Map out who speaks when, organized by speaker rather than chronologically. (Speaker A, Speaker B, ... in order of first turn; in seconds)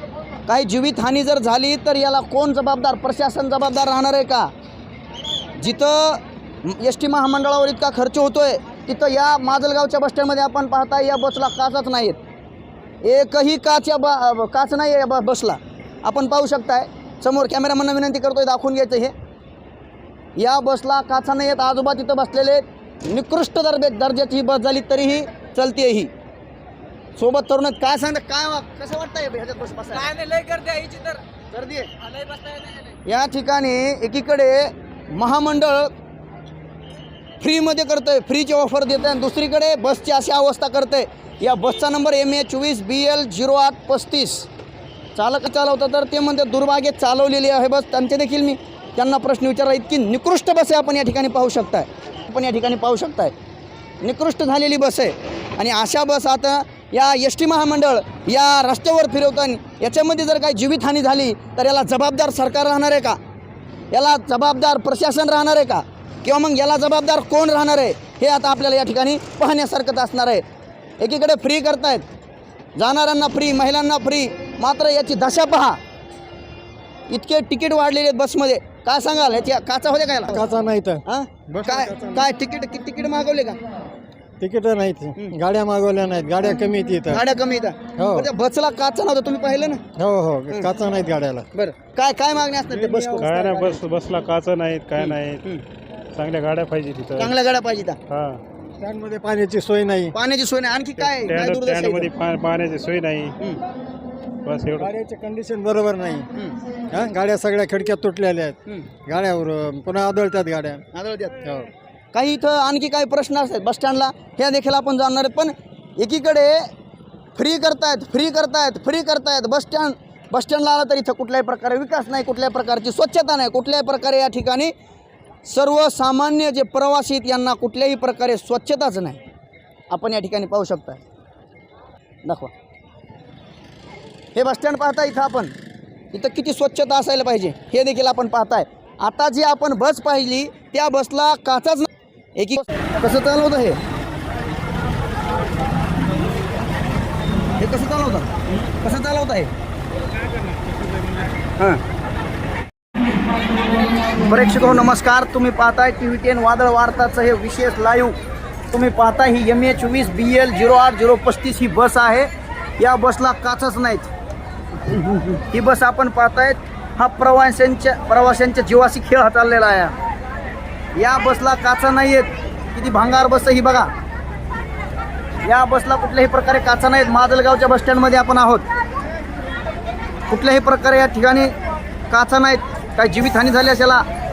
Speaker A: 0.5-4.5, 5.6-12.2, 13.0-19.1, 20.4-26.1, 27.2-30.2, 31.5-32.0, 33.0-36.0, 37.4-44.5, 45.1-53.3, 54.0-63.2, 63.9-70.4, 71.0-72.0, 72.8-75.8, 77.1-80.4, 81.1-83.6, 87.1-89.8, 91.5-93.5, 95.0-95.6, 97.2-98.0, 100.1-102.1, 110.9-111.4, 112.1-116.7, 117.3-124.7, 125.5-129.2, 129.9-131.0, 132.2-132.5, 134.3-135.5, 136.1-143.8, 147.6-149.5, 154.2-158.2, 158.7-164.1, 164.8-169.9, 171.0-173.9, 175.4-178.7, 180.3-181.5, 182.1-184.1
Speaker B: 30.0-31.2, 32.0-33.0
Speaker C: 80.3-82.3, 84.4-87.2, 88.0-88.3, 90.0-91.5, 92.7-93.9, 98.8-100.1, 104.8-106.3, 106.9-110.8, 111.4-111.7
Speaker D: 93.2-95.4, 96.1-97.3, 98.1-98.4, 101.0-103.4, 104.5-104.9